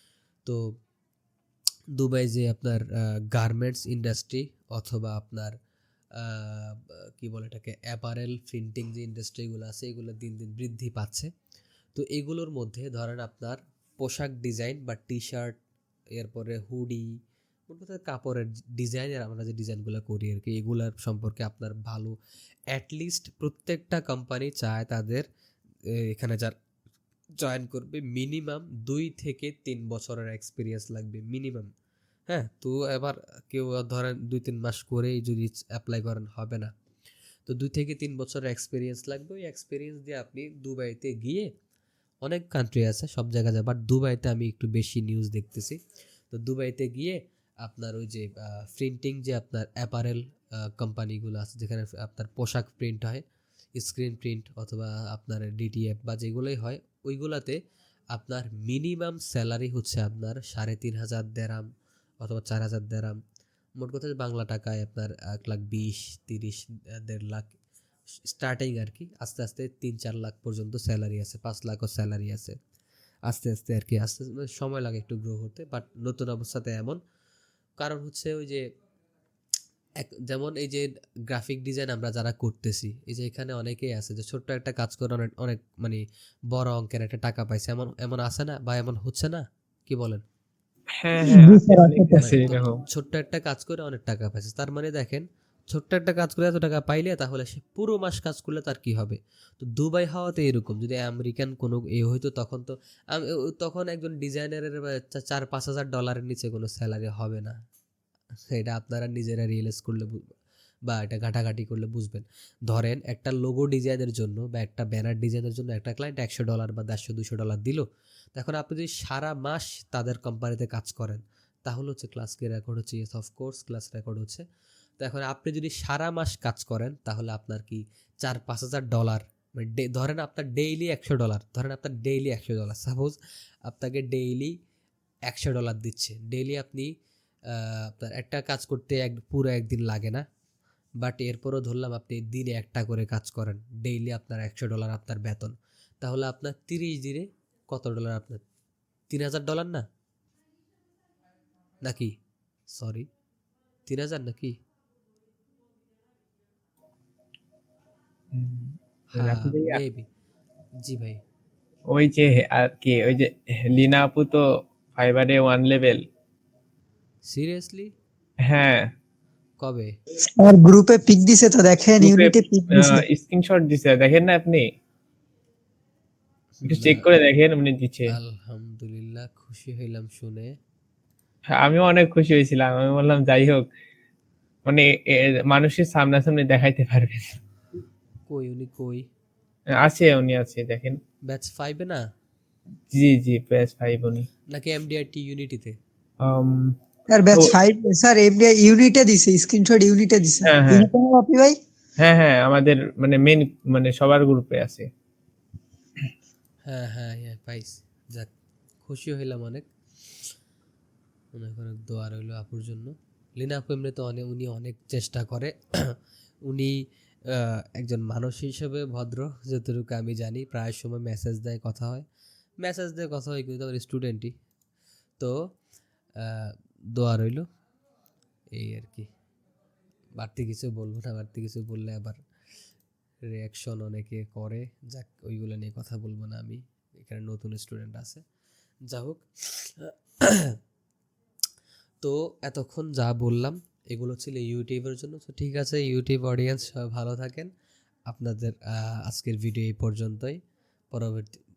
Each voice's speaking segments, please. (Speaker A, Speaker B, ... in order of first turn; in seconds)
Speaker A: 0.4-0.7, 1.9-5.6, 6.1-11.3, 11.9-15.6, 16.1-17.1, 17.7-22.1, 22.7-25.3, 25.9-26.5, 27.4-31.7, 32.3-36.7, 37.5-41.5, 42.2-45.8, 46.3-53.2, 53.8-57.6, 58.1-61.7, 62.2-63.2, 63.8-67.6, 68.2-72.6, 73.2-77.0, 77.8-78.6, 80.0-90.2, 92.2-107.6, 108.5-110.3, 110.9-124.4, 125.0-134.5, 135.3-136.9, 137.5-140.2, 141.0-148.4, 149.1-149.8, 151.8-152.1, 152.7-153.1, 153.9-154.6, 159.1-160.1, 160.8-161.2, 167.3-167.9, 169.6-169.9, 176.6-177.1, 178.1-180.6, 188.3-189.1, 191.2-192.0, 194.5-195.8, 206.7-208.3, 208.8-209.7, 211.3-215.9, 216.5-216.8, 217.3-222.0, 222.6-224.3, 226.2-227.4, 228.5-229.1, 230.2-232.2, 233.3-238.2, 238.9-240.6, 242.0-247.5, 248.1-250.4, 250.9-251.4
Speaker B: 91.0-92.8, 158.3-159.8, 161.9-166.0, 168.4-168.9, 172.0-174.7, 176.7-178.1, 181.5-183.7, 184.7-187.4, 189.7-191.0, 192.9-194.3, 196.2-196.8, 200.4-200.9, 202.0-204.9
Speaker C: 91.2-92.3, 170.2-173.0, 197.1-201.6